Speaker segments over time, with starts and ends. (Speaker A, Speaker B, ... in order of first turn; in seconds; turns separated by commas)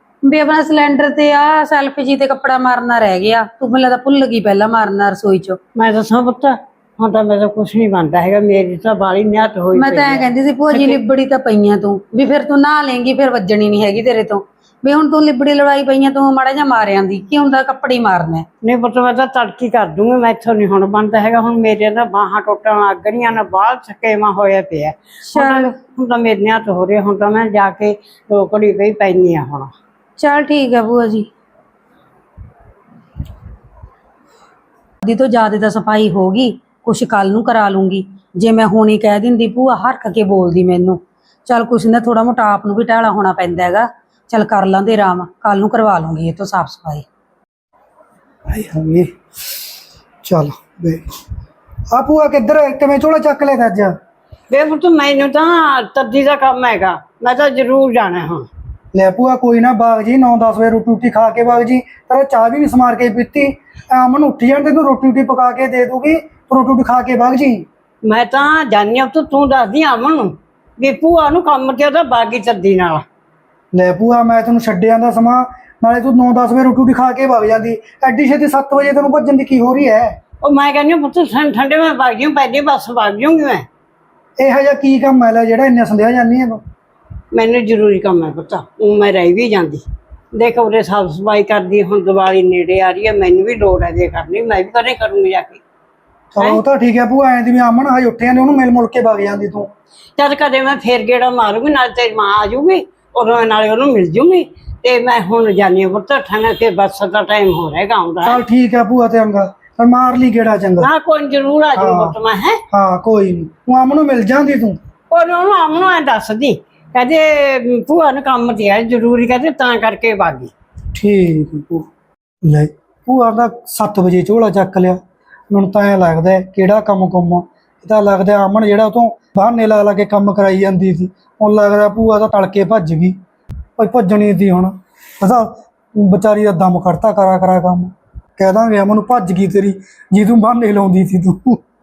Speaker A: 0.2-5.6, Speaker B: 5.8-11.0, Speaker A: 9.7-18.4, Speaker B: 18.6-29.7, Speaker A: 25.3-25.8, Speaker A: 30.2-31.3, Speaker A: 35.0-47.1, Speaker C: 48.5-49.1, Speaker C: 50.2-51.1, Speaker C: 51.9-54.0, Speaker B: 54.5-58.5, Speaker C: 58.9-67.7, Speaker B: 68.0-73.0, Speaker C: 73.7-80.2, Speaker B: 80.4-83.7, Speaker C: 84.4-86.6, Speaker B: 87.3-95.6, Speaker C: 96.3-99.7, Speaker B: 100.2-108.4, Speaker C: 108.2-110.9, Speaker B: 110.8-112.6, Speaker C: 111.8-112.2, Speaker C: 112.7-114.8, Speaker B: 115.1-120.5, Speaker C: 121.0-121.9, Speaker C: 122.4-133.2, Speaker C: 133.8-141.6